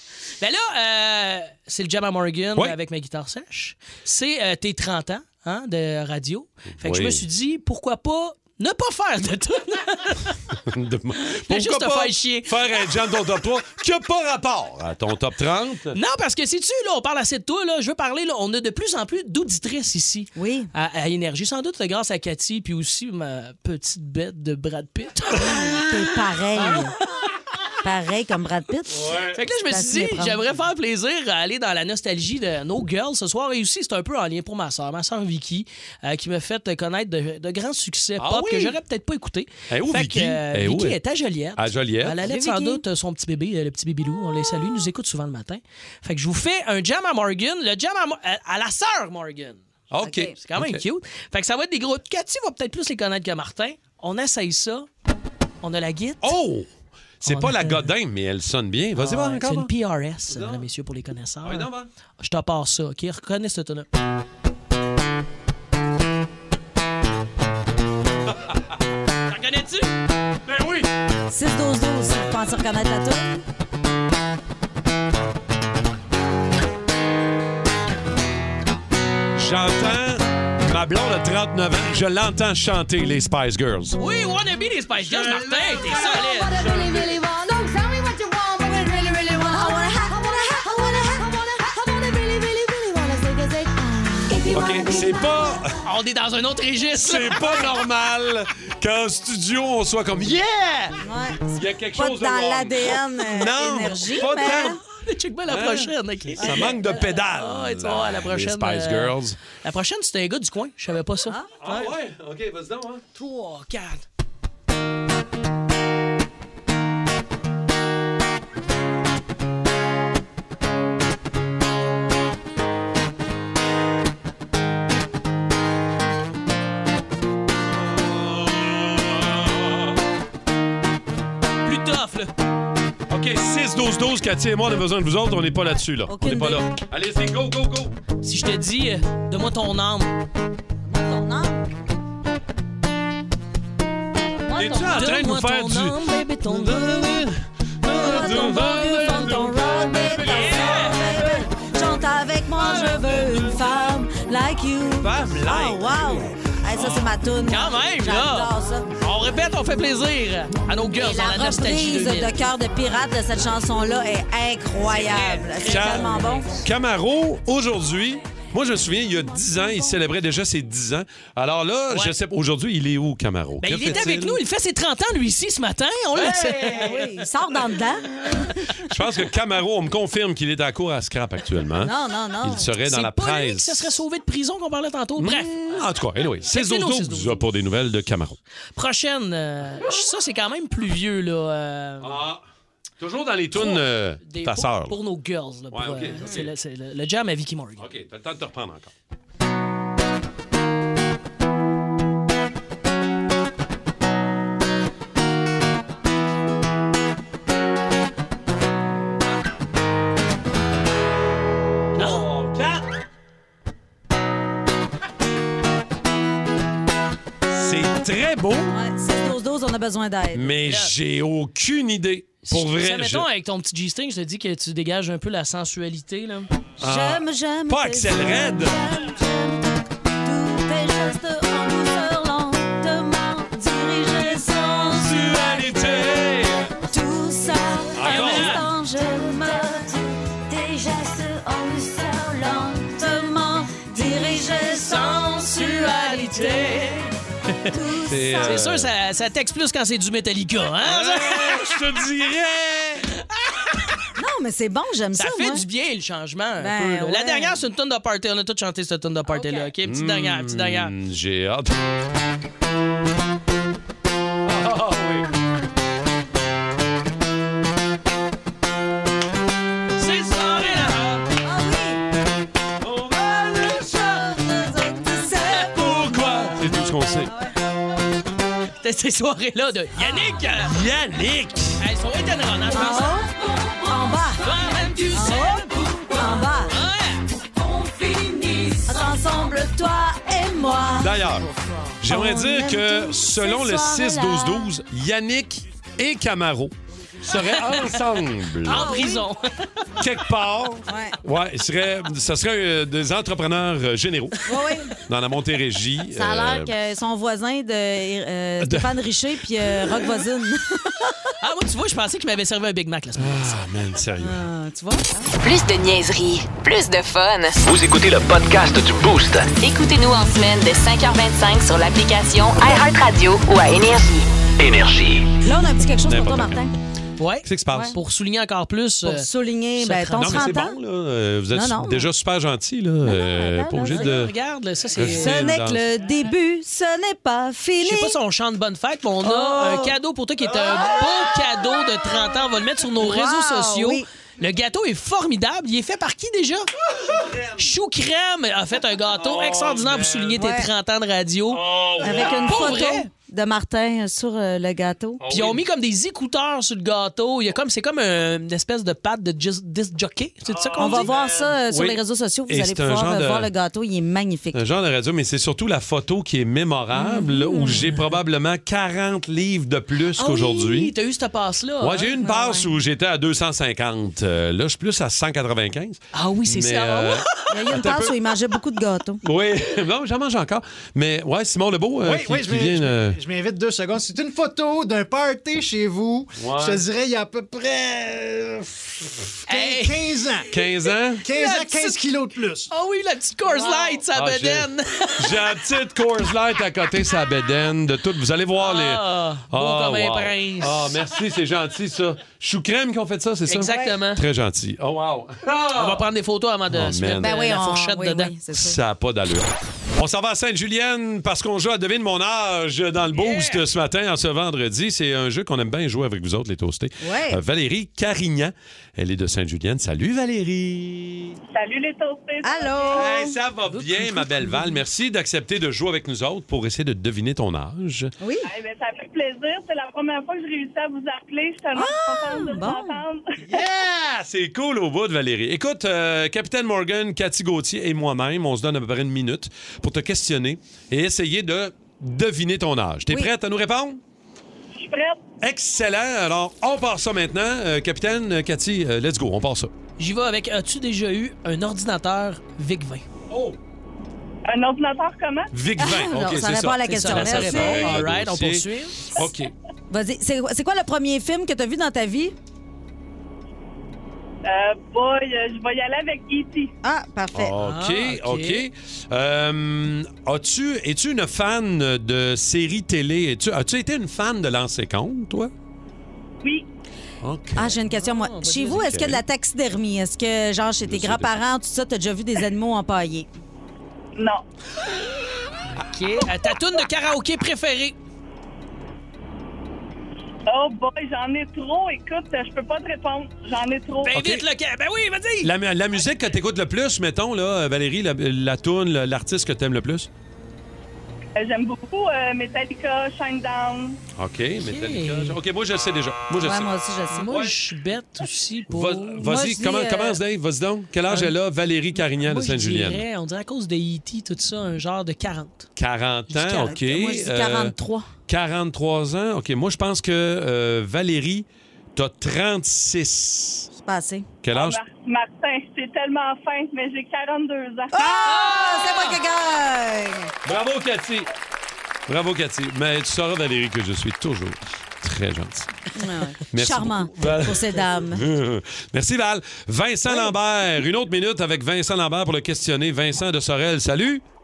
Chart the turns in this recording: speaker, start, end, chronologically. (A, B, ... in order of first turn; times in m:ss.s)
0:00.4-0:10.4 A
0:06.8-0:07.2 B
0:10.6-0:16.0 B
0:11.3-0:12.6 A
0:15.9-0:25.9 A
0:20.4-0:20.7 C
0:25.5-0:27.0 C
0:26.6-0:27.0 A
0:27.8-0:29.0 C
0:28.9-0:29.4 B
0:29.3-0:49.6 A
0:29.7-0:30.4 C
0:38.2-0:38.8 B
0:39.7-0:41.0 B
0:41.6-0:42.2 B
0:42.2-0:42.8 C
0:49.9-0:50.8 B
0:50.0-0:50.4 C
0:50.4-0:54.9 A
0:55.6-0:56.3 A
0:56.2-0:56.7 B
0:57.2-0:59.7 B
0:57.2-0:57.8 A
0:59.0-1:01.7 A
1:00.3-1:00.6 B
1:01.4-1:01.9 B
1:02.2-1:03.9 A
1:09.3-1:09.9 A
1:10.4-1:10.9 B
1:11.3-1:13.4 C
1:19.4-1:24.0 B
1:24.0-1:26.6 A
1:25.0-1:27.1 B
1:28.6-1:31.3 C
1:33.6-1:34.6 C
1:34.4-1:35.8 B
1:35.8-1:37.6 A
1:36.9-1:41.0 B
1:37.4-1:37.7 C
1:41.0-1:44.8 C
1:41.5-1:44.8 B
1:44.2-1:51.9 A
1:45.5-1:49.4 B
1:46.4-1:47.2 C
1:51.6-1:53.0 B
1:53.1-1:54.0 A
2:07.7-2:10.0 B
2:11.6-2:12.3 A
2:13.1-2:18.0 B
2:16.1-2:16.6 C
2:18.2-2:20.2 A
2:20.8-2:21.6 C
2:24.4-2:25.2 C
2:24.5-2:31.1 B
2:24.7-2:27.1 A
2:27.9-2:38.9 C
2:30.2-2:31.1 A
2:32.6-2:33.9 B
2:35.0-2:36.0 B
2:36.7-2:37.2 B
2:37.5-2:42.3 A
2:40.9-2:46.6 C
2:44.9-2:46.4 A
2:45.6-2:54.4 B
2:53.6-2:57.0 A
2:56.2-2:57.0 B
2:56.7-2:58.6 C
2:58.8-3:03.9 B
3:01.8-3:02.7 C
3:02.8-3:05.7 A
3:05.2-3:08.4 B
3:06.4-3:07.4 A
3:08.7-3:12.2 A
3:12.0-3:12.4 B
3:13.0-3:15.0 B
3:13.5-3:17.8 A
3:15.7-3:16.5 B
3:17.8-3:18.9 B
3:31.9-3:32.8 B
3:32.0-3:32.2 A
3:37.5-3:38.8 B
3:38.7-3:40.6 C
3:40.3-3:43.2 B
3:40.6-3:40.9 A
3:42.4-3:46.5 A
3:46.8-3:48.8 B
3:46.8-3:56.0 C
3:54.4-3:56.7 B
3:56.9-4:07.0 C
3:57.9-3:58.7 B
3:58.0-3:58.7 A
4:04.6-4:07.7 A
4:07.7-4:08.6 C
4:07.9-4:08.9 B
4:08.4-4:11.8 A
4:10.8-4:13.1 B
4:14.2-4:15.6 C
4:15.1-4:20.9 A
4:16.6-4:17.6 C
4:19.3-4:19.7 C
4:19.8-4:21.9 B
4:24.4-4:25.3 B
4:30.0-4:31.0 A
4:30.7-4:31.2 B
4:31.4-4:32.0 C
4:32.8-4:34.4 B
4:34.2-4:36.6 C
4:35.5-4:37.3 B
4:37.3-4:37.5 C
4:38.8-4:40.8 A
4:40.0-4:40.4 C
4:40.5-4:41.8 B
4:41.8-4:43.2 A
4:42.7-4:46.8 C
4:44.4-4:47.2 A
4:47.5-4:51.1 C
4:51.0-4:51.5 B
4:52.0-4:59.0 B
4:52.0-4:54.7 C
4:57.4-4:58.0 A
4:58.6-4:59.8 A
4:58.7-4:59.2 C
5:00.0-5:04.4 B
5:00.9-5:01.2 C
5:04.4-5:04.9 C
5:05.0-5:06.7 B
5:06.1-5:11.3 C
5:08.6-5:09.0 B
5:11.4-5:13.6 A
5:13.2-5:14.4 B
5:14.2-5:15.3 C
5:15.4-5:17.6 D
5:17.6-5:19.5 E
5:19.5-5:24.3 D
5:24.6-5:25.3 E
5:25.4-5:26.7 C
5:26.0-5:26.7 B
5:27.2-5:30.6 A
5:27.4-5:28.0 B
5:27.7-5:28.0 C
5:29.0-5:30.8 C
5:30.2-5:34.3 B
5:31.5-5:32.1 C
5:33.0-5:34.1 C
5:33.9-5:35.5 A
5:34.9-5:35.8 B
5:35.0-5:38.2 C
5:37.8-5:46.7 A
5:39.2-5:39.9 C
5:43.0-5:44.0 C
5:46.9-5:47.7 B
5:47.6-5:53.1 A
5:49.1-5:50.4 B
5:50.4-5:50.7 C
5:51.5-5:52.8 B
5:52.0-5:55.2 C
5:55.2-5:55.6 B
5:55.3-6:01.1 A
6:00.5-6:03.5 B
6:00.8-6:04.6 C
6:04.5-6:10.9 B
6:06.9-6:07.9 C
6:10.2-6:12.2 A
6:11.8-6:18.1 B
6:12.2-6:12.7 C
6:16.1-6:17.8 A
6:17.5-6:19.2 C
6:19.2-6:23.2 B
6:22.0-6:30.5 F
6:26.4-6:26.8 B
6:29.5-6:32.0 A
6:30.5-6:31.3 B
6:31.2-6:32.7 F
6:32.7-6:35.6 A
6:33.5-6:34.0 C
6:34.1-6:46.0 B
6:38.6-6:41.0 A
6:43.5-6:44.2 A
6:45.7-6:48.4 A
6:46.7-6:47.3 B
6:47.2-6:48.8 C
6:48.5-7:01.4 B
6:53.1-6:53.6 A
6:57.0-6:57.4 C
7:01.5-7:03.1 G
7:02.4-7:03.4 C
7:03.0-7:08.1 B
7:03.7-7:04.8 A
7:08.2-7:08.5 C
7:08.4-7:13.4 G
7:11.7-7:13.0 C
7:13.5-7:24.0 B
7:24.8-7:25.2 G
7:25.4-7:29.7 B
7:30.0-7:33.0 A
7:33.3-7:33.6 B
7:34.5-7:35.5 G
7:35.5-7:39.5 B
7:35.8-7:38.0 C
7:36.9-7:39.2 A
7:39.9-7:42.3 C
7:44.4-7:46.7 G
7:46.8-7:47.6 C
7:47.3-7:55.5 B
7:47.6-7:48.6 A
7:57.2-7:57.8 B
7:57.6-8:03.3 C
7:57.9-7:58.8 A
7:58.7-7:59.2 B
8:00.8-8:01.3 B
8:04.2-8:04.4 G
8:05.7-8:08.0 A
8:10.5-8:14.1 G
8:14.0-8:15.5 A
8:14.1-8:14.4 B
8:15.4-8:20.1 B
8:21.4-8:24.0 G
8:24.2-8:26.7 B
8:24.6-8:25.4 A
8:26.4-8:27.3 C
8:27.1-8:29.3 A
8:27.3-8:27.6 B
8:28.7-8:33.0 B
8:29.2-8:30.2 C
8:31.1-8:31.3 A
8:32.2-8:35.7 A
8:35.8-8:37.7 B
8:36.3-8:36.7 A
8:36.6-8:38.1 C
8:38.3-8:43.7 B
8:43.8-8:44.3 C
8:44.4-8:44.8 B
8:44.5-8:47.9 G
8:47.9-8:50.3 C
8:48.5-8:49.1 A
8:50.4-8:51.3 B
8:52.1-8:55.7 B
8:55.9-8:58.2 C
8:56.5-9:04.2 B